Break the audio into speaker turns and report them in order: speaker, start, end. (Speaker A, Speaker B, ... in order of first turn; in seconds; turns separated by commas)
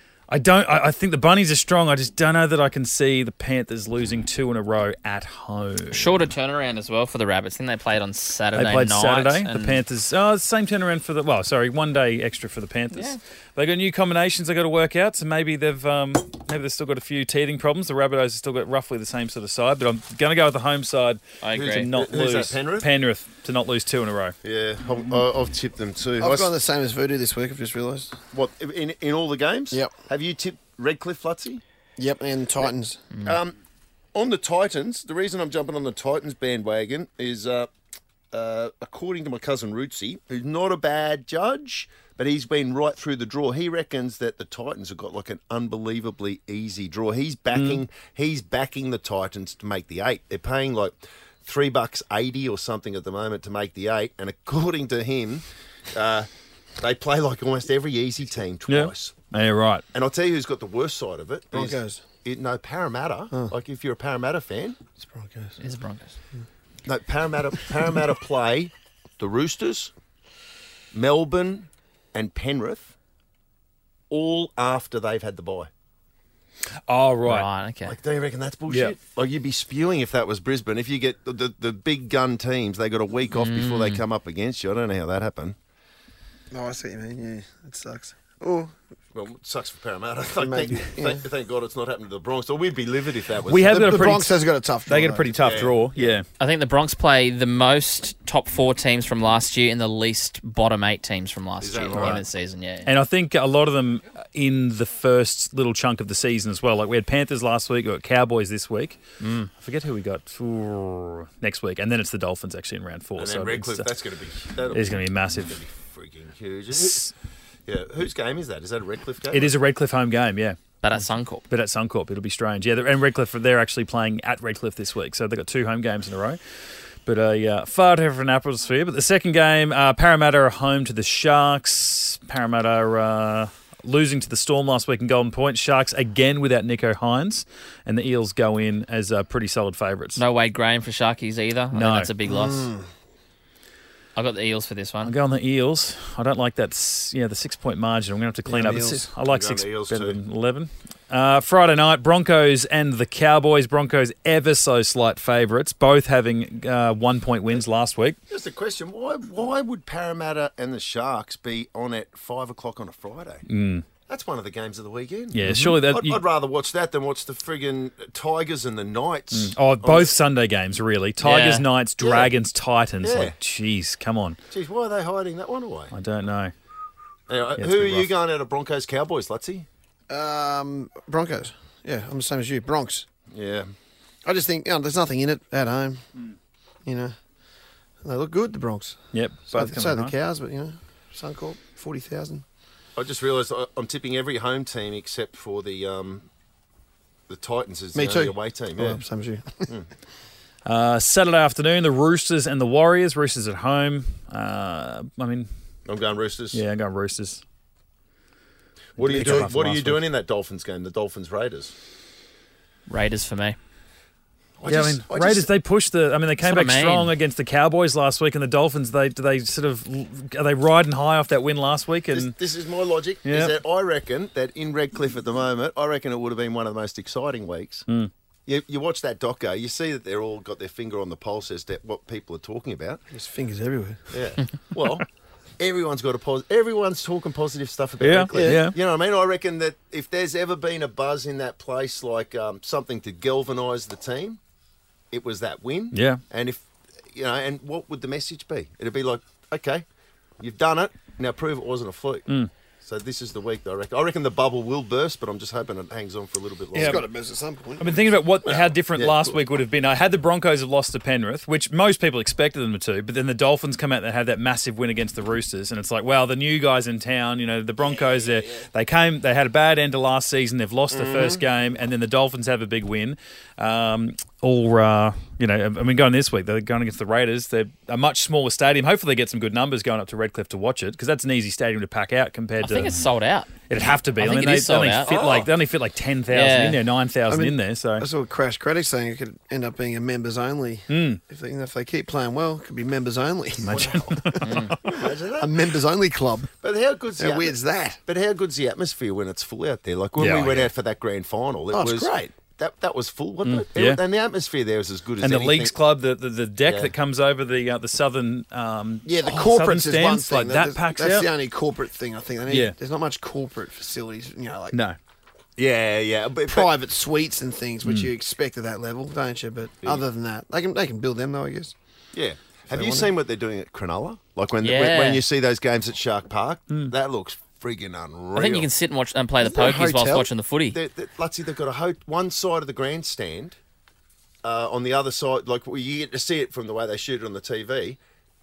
Speaker A: 0.3-6.2, Speaker B: 5.9-9.8, Speaker A: 8.5-24.4, Speaker B: 12.9-13.2, Speaker B: 21.4-21.9, Speaker C: 21.5-22.9, Speaker C: 24.4-26.5, Speaker D: 26.2-28.2, Speaker C: 28.3-31.6, Speaker D: 32.0-33.1, Speaker C: 33.2-33.5, Speaker C: 34.1-37.7, Speaker C: 38.3-56.3, Speaker A: 47.5-47.8, Speaker C: 56.8-59.2, Speaker A: 58.7-59.8, Speaker C: 59.9-64.8, Speaker D: 61.5-62.0, Speaker D: 65.0-65.6, Speaker B: 65.6-66.2, Speaker C: 66.8-69.9, Speaker C: 70.9-72.9, Speaker C: 74.1-75.7, Speaker A: 76.9-77.5, Speaker B: 77.2-78.0, Speaker C: 77.8-85.5, Speaker B: 83.3-84.0, Speaker D: 86.5-88.7, Speaker C: 89.1-93.9, Speaker D: 90.4-91.2, Speaker A: 93.4-96.3, Speaker D: 93.7-95.4, Speaker C: 95.3-96.2, Speaker B: 96.4-102.9, Speaker C: 101.6-102.2, Speaker A: 101.9-102.2, Speaker A: 102.8-113.9, Speaker C: 113.2-117.1, Speaker A: 114.7-115.6, Speaker A: 116.7-117.1, Speaker C: 117.7-119.5, Speaker A: 119.3-121.0, Speaker B: 120.8-121.4, Speaker A: 121.5-126.4, Speaker A: 127.0-140.2, Speaker B: 140.2-142.7, Speaker A: 141.7-142.1, Speaker D: 142.2-142.8, Speaker B: 144.2-145.1, Speaker A: 145.0-158.2, Speaker D: 148.4-149.1, Speaker C: 149.2-150.2, Speaker C: 158.3-163.4, Speaker A: 163.5-163.8, Speaker C: 164.1-170.1, Speaker A: 165.3-166.2, Speaker A: 169.3-174.4, Speaker B: 171.2-171.7, Speaker C: 172.0-172.3, Speaker C: 173.0-173.3, Speaker C: 174.5-175.9, Speaker A: 175.9-176.5, Speaker C: 177.3-179.7, Speaker A: 177.6-178.1, Speaker D: 180.1-183.1, Speaker C: 183.3-183.7, Speaker D: 184.2-186.1, Speaker D: 186.8-187.1, Speaker D: 188.0-192.4, Speaker A: 189.1-190.2, Speaker C: 193.0-196.3, Speaker C: 197.3-199.0, Speaker D: 197.9-199.7, Speaker A: 200.6-205.5, Speaker C: 205.8-206.6, Speaker A: 206.5-207.4, Speaker A: 209.0-210.0, Speaker C: 209.0-211.7, Speaker D: 209.1-209.5, Speaker B: 212.9-213.6, Speaker C: 214.6-215.5, Speaker A: 214.7-222.3, Speaker B: 216.4-217.1, Speaker C: 222.1-227.8, Speaker A: 223.2-223.6, Speaker C: 228.5-233.0, Speaker D: 233.1-234.1, Speaker C: 234.1-235.1, Speaker C: 235.6-244.4, Speaker A: 238.0-238.8, Speaker D: 238.4-238.6, Speaker C: 245.1-249.8, Speaker A: 245.9-246.2, Speaker C: 250.4-252.3, Speaker C: 252.8-257.1, Speaker A: 256.7-257.1, Speaker D: 256.8-258.0, Speaker A: 257.8-283.0, Speaker C: 258.4-259.4, Speaker D: 270.9-271.4, Speaker B: 282.6-283.6, Speaker A: 283.7-288.1, Speaker B: 284.1-285.1, Speaker C: 285.1-285.5, Speaker B: 286.3-286.8, Speaker D: 287.3-296.5, Speaker A: 290.9-291.2, Speaker A: 293.6-294.7, Speaker C: 293.7-294.0, Speaker B: 294.4-294.7, Speaker C: 294.8-295.7, Speaker C: 296.6-305.8, Speaker D: 297.2-298.0, Speaker A: 300.2-300.7, Speaker D: 301.7-302.4, Speaker A: 303.4-304.0, Speaker A: 305.2-311.3, Speaker C: 306.6-306.9, Speaker D: 309.1-314.8, Speaker A: 312.5-312.8, Speaker C: 315.6-316.7, Speaker D: 316.5-321.7, Speaker A: 317.8-318.1, Speaker C: 322.1-328.7, Speaker D: 322.7-323.1, Speaker B: 324.6-325.2, Speaker B: 328.4-330.8, Speaker D: 329.4-330.3, Speaker C: 330.7-333.6, Speaker C: 334.4-338.0